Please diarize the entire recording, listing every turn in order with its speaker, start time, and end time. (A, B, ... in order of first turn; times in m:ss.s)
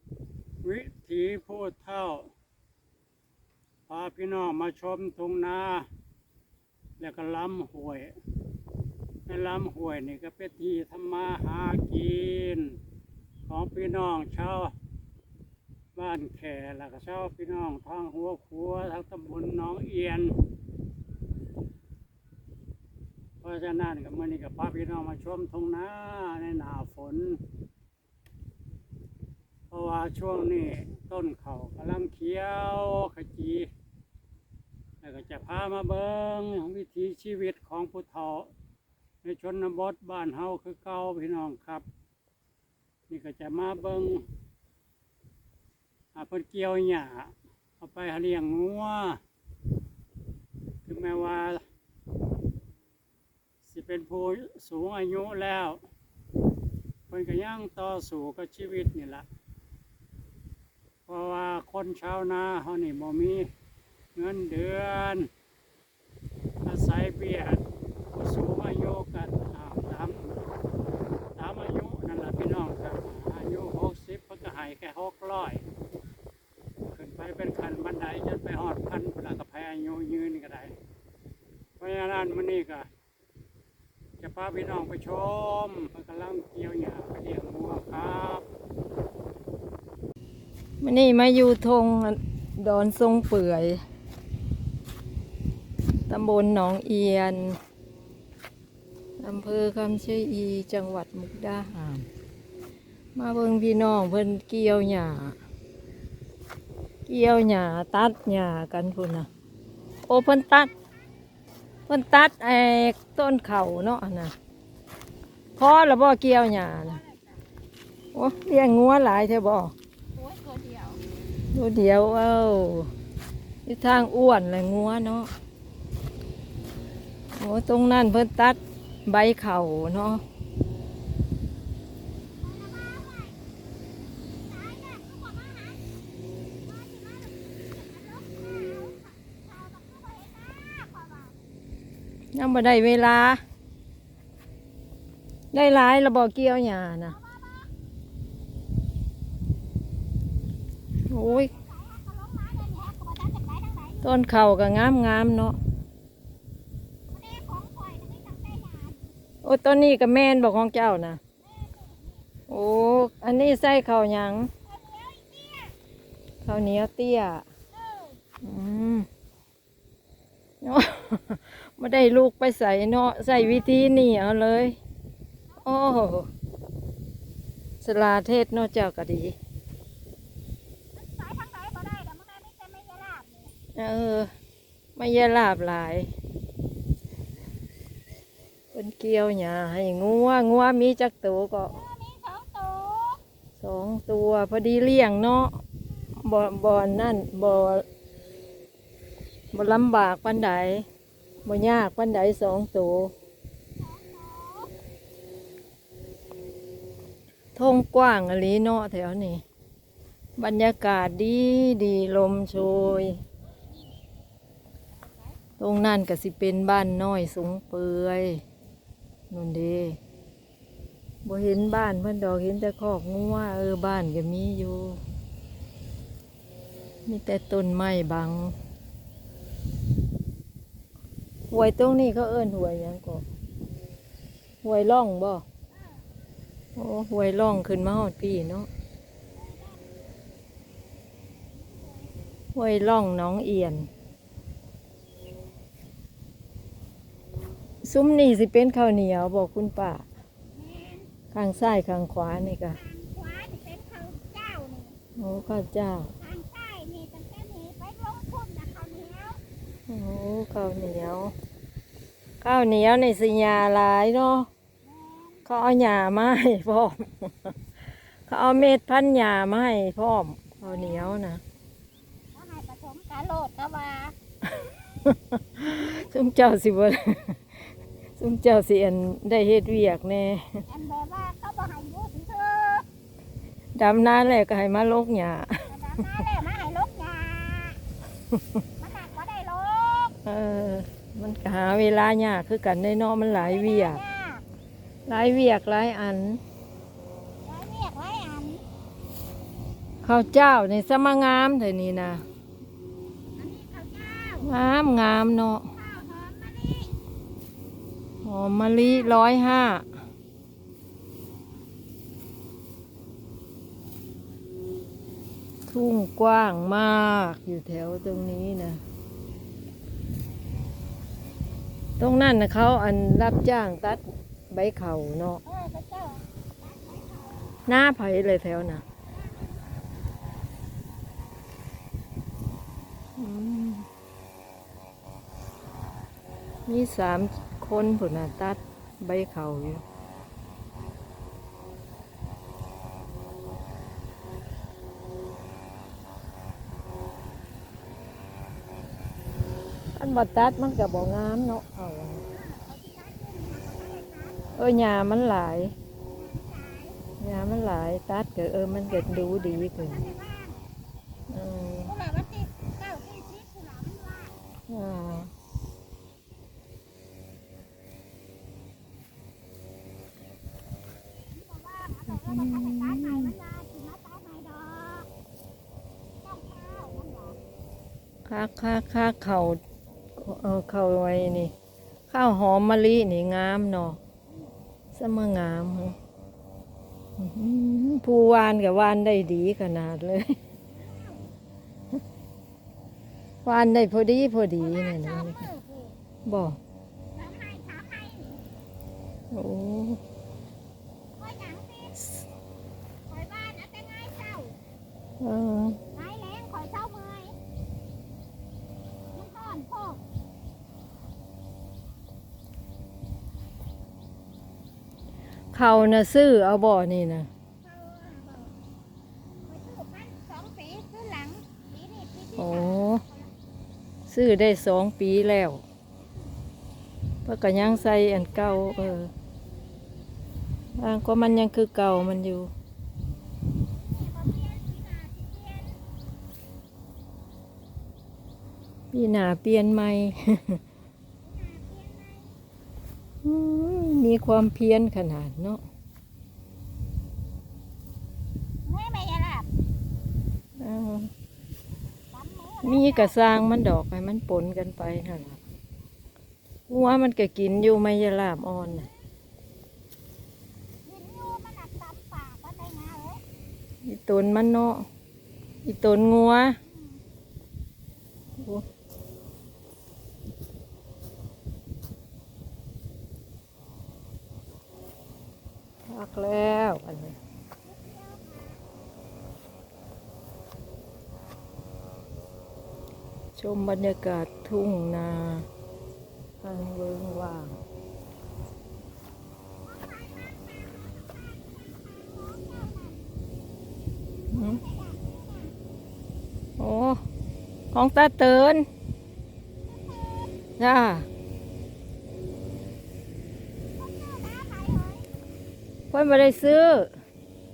0:00.6-0:02.3 A
0:03.9-0:05.9 A
0:07.0-0:08.1 A
0:09.3-0:12.8 A
0:13.4-0:14.7 A
0:15.9-0:20.4 A
0:23.4-0:27.4 A
0:29.7-0:33.7 A
0:35.0-0:38.5 A
0:39.2-0:41.8 A
0:43.1-0:44.2 A
0:46.1-0:49.2 A
0:50.8-0:51.6 A
0:53.6-0:55.8 A
0:57.1-0:59.2 A
1:01.1-1:03.5 A
1:04.1-1:05.3 A
1:06.6-1:10.3 A
1:11.4-1:15.6 A
1:16.9-1:20.7 A
1:21.8-1:22.9 A
1:24.2-1:28.4 A
1:30.8-1:33.8 B
1:36.1-1:37.6 B
1:39.2-1:42.0 B
1:43.2-1:45.4 B
1:47.1-1:49.3 B
1:50.0-1:50.7 C
1:50.1-1:50.7 B
1:51.9-1:54.3 B
1:55.6-1:57.0 B
1:56.9-1:57.4 C
1:58.1-1:59.7 B
2:00.2-2:01.0 C
2:01.5-2:02.9 B
2:03.6-2:05.3 B
2:07.3-2:10.2 B
2:12.4-2:13.4 C
2:14.3-2:15.8 C
2:16.6-2:21.4 C
2:22.3-2:23.4 B
2:25.5-2:27.2 B
2:27.1-2:27.7 C
2:31.1-2:31.5 B
2:31.1-2:34.1 C
2:34.0-2:35.6 B
2:37.1-2:39.1 C
2:39.4-2:41.2 B
2:41.4-2:42.2 C
2:42.5-2:44.5 B
2:44.6-2:45.7 C
2:46.4-2:47.4 B
2:47.7-2:48.2 C
2:48.4-2:49.1 B
2:50.6-2:54.8 B
2:53.3-2:53.7 C
2:55.6-2:56.3 B
2:57.8-2:59.4 B
3:01.0-3:03.5 C
3:03.8-3:04.3 B
3:05.0-3:06.1 B
3:08.7-3:11.7 B
3:11.7-3:13.2 C
3:13.6-3:15.6 B
3:16.1-3:17.8 B
3:19.5-3:20.9 B
3:21.4-3:23.1 B
3:23.8-3:24.7 C
3:27.5-3:29.4 B
3:30.4-3:33.2 B
3:35.6-3:38.4 B
3:39.3-3:40.0 B
3:41.2-3:45.0 B
3:47.0-3:48.6 B
3:51.5-3:53.2 B
3:54.6-3:55.4 B
3:56.8-3:58.7 B
3:59.3-3:59.9 C
4:01.6-4:02.1 C
4:02.5-4:03.9 B
4:07.8-4:10.0 B
4:10.5-4:11.1 C
4:11.3-4:12.8 B
4:12.7-4:15.0 C
4:15.2-4:16.1 B
4:16.2-4:19.4 C
4:19.9-4:21.3 B
4:22.4-4:24.5 B
4:24.8-4:25.4 C
4:25.4-4:27.6 B
4:28.3-4:31.4 B
4:30.6-4:31.2 C
4:32.3-4:34.2 C
4:34.5-4:40.6 B
4:40.7-4:42.9 C
4:43.7-4:45.7 B
4:45.7-4:47.8 C
4:48.8-4:50.2 C
4:50.2-4:54.0 B
4:53.3-4:54.4 C
4:55.1-4:56.4 B
4:57.4-4:58.6 C
5:00.0-5:02.2 B
5:03.4-5:04.5 C
5:04.4-5:05.7 B
5:05.7-5:07.0 C
5:08.2-5:09.9 B
5:08.7-5:09.2 C
5:15.7-5:18.8 B
5:22.0-5:25.4 B
5:25.4-5:27.6 C
5:27.7-5:28.8 B
5:29.2-5:29.6 C
5:33.2-5:33.9 B
5:36.7-5:39.8 B
5:49.9-5:52.2 B
5:52.3-5:54.4 C
5:54.5-5:55.7 B
5:56.0-5:57.0 C
5:57.2-6:00.0 B
5:58.8-6:00.6 C
6:01.3-6:01.9 B
6:01.8-6:04.4 C
6:04.7-6:05.3 B
6:11.3-6:15.1 C
6:12.1-6:13.4 B
6:16.2-6:17.4 C
6:18.2-6:19.6 B
6:20.2-6:21.5 B
6:22.1-6:24.0 B
6:24.9-6:26.0 B
6:27.2-6:30.4 B
6:30.7-6:31.3 C
6:33.4-6:35.5 B
6:34.6-6:36.0 C
6:36.2-6:36.6 B
6:37.1-6:38.4 C
6:39.3-6:40.0 B
6:41.2-6:42.1 C
6:43.1-6:44.6 C
6:45.2-6:45.8 B
6:45.9-6:47.4 C
6:49.1-6:50.0 C
6:55.5-6:57.3 B
6:57.6-6:58.5 C
6:59.4-7:03.3 C
7:02.3-7:03.0 B
7:04.1-7:05.6 B
7:07.2-7:09.1 B
7:07.6-7:09.0 C
7:10.8-7:12.5 B
7:13.7-7:15.8 C
7:18.9-7:20.6 B
7:21.2-7:22.3 C
7:23.2-7:25.6 B
7:28.6-7:29.5 C
7:30.6-7:31.1 B
7:32.1-7:33.2 C
7:32.6-7:35.4 B
7:36.7-7:38.9 B
7:40.8-7:43.2 C
7:43.8-7:44.9 B
7:45.6-7:46.6 B
7:46.7-7:47.0 C
7:48.4-7:48.6 B
7:55.9-7:57.2 B
7:57.6-7:58.6 C
8:03.4-8:05.5 B
8:06.4-8:07.6 B
8:09.6-8:13.0 C
8:14.3-8:15.6 C
8:14.3-8:14.6 B
8:16.6-8:17.0 B
8:17.7-8:18.7 B
8:19.7-8:20.5 C
8:20.6-8:21.1 B
8:23.8-8:25.1 C
8:25.9-8:26.9 B